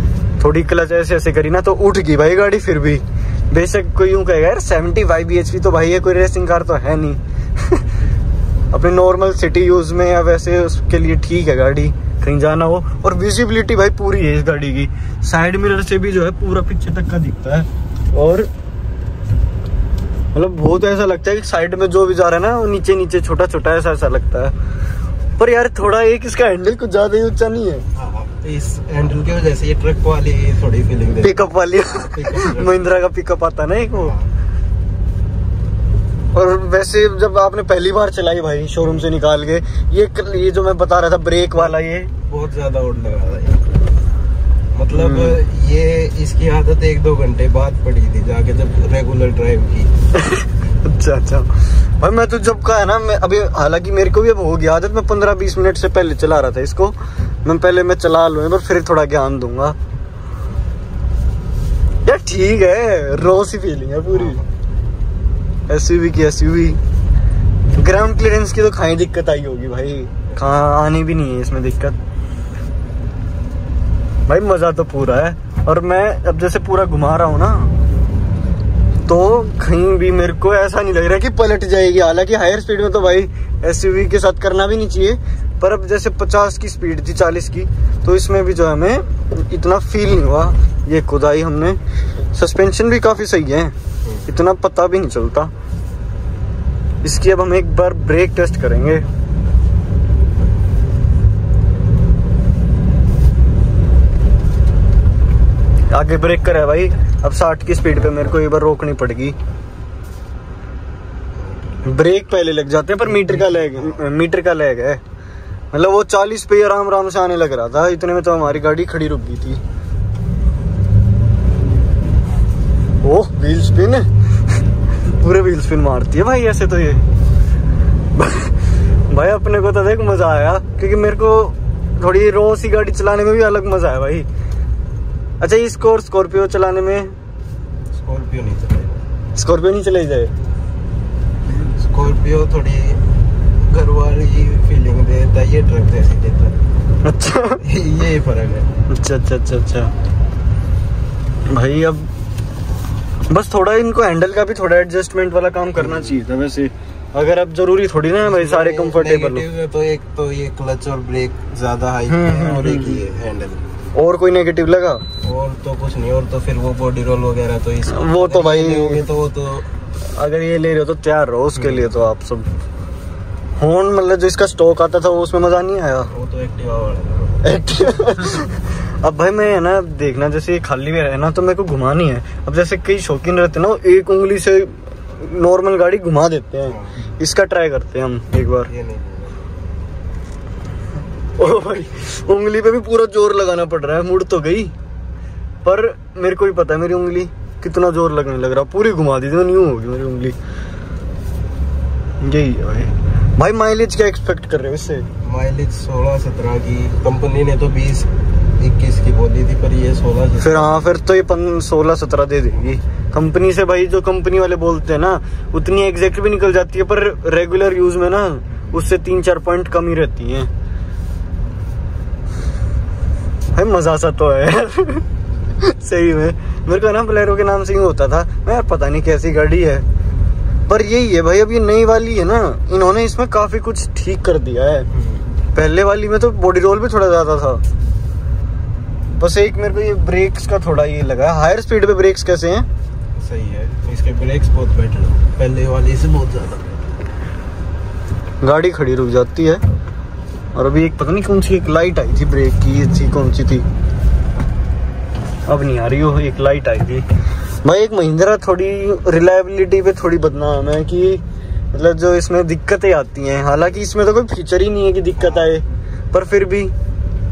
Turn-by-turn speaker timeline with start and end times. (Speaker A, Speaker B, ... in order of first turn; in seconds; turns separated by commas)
Speaker A: 0.4-7.9, Speaker A: 8.7-18.5, Speaker A: 20.3-24.5, Speaker A: 25.4-27.9, Speaker B: 27.9-32.9, Speaker A: 31.2-34.1, Speaker B: 33.9-34.3, Speaker A: 36.3-42.1, Speaker B: 42.3-43.7, Speaker B: 44.7-49.9, Speaker A: 44.9-45.4, Speaker A: 50.1-59.8, Speaker A: 62.0-64.4, Speaker B: 64.1-64.4, Speaker A: 65.7-66.8, Speaker A: 67.7-72.0, Speaker A: 74.3-77.7, Speaker A: 79.1-91.8, Speaker A: 92.3-93.7, Speaker B: 94.0-94.3, Speaker A: 94.3-95.5, Speaker A: 97.0-99.0, Speaker A: 105.9-109.3, Speaker B: 111.3-112.0, Speaker A: 111.8-115.0, Speaker B: 113.1-114.0, Speaker A: 115.7-119.6, Speaker A: 123.0-127.0, Speaker A: 128.1-134.3, Speaker A: 135.4-137.1, Speaker B: 137.9-139.0, Speaker A: 139.3-140.3, Speaker B: 141.5-143.0, Speaker B: 143.6-146.5, Speaker A: 147.0-147.6, Speaker B: 147.6-148.7, Speaker A: 148.9-149.9, Speaker A: 151.5-152.1, Speaker A: 153.3-159.4, Speaker B: 155.8-156.1, Speaker B: 158.2-163.6, Speaker A: 162.1-163.0, Speaker A: 163.9-165.0, Speaker B: 165.2-169.7, Speaker A: 167.9-169.0, Speaker A: 170.1-172.5, Speaker B: 171.5-171.9, Speaker A: 173.6-176.1, Speaker B: 176.1-177.5, Speaker A: 177.4-188.7, Speaker B: 186.7-186.9, Speaker B: 188.7-189.7, Speaker A: 191.4-194.7, Speaker A: 195.6-200.4, Speaker A: 202.2-205.1, Speaker B: 205.2-210.8, Speaker A: 210.4-220.5, Speaker A: 223.5-225.1, Speaker A: 225.6-229.8, Speaker A: 230.7-234.9, Speaker B: 234.9-235.3, Speaker A: 235.5-237.6, Speaker A: 239.1-242.7, Speaker B: 243.2-246.8, Speaker A: 248.4-249.6, Speaker A: 250.5-253.7, Speaker A: 255.5-257.0, Speaker A: 257.6-261.2, Speaker A: 261.7-266.7, Speaker B: 265.2-265.6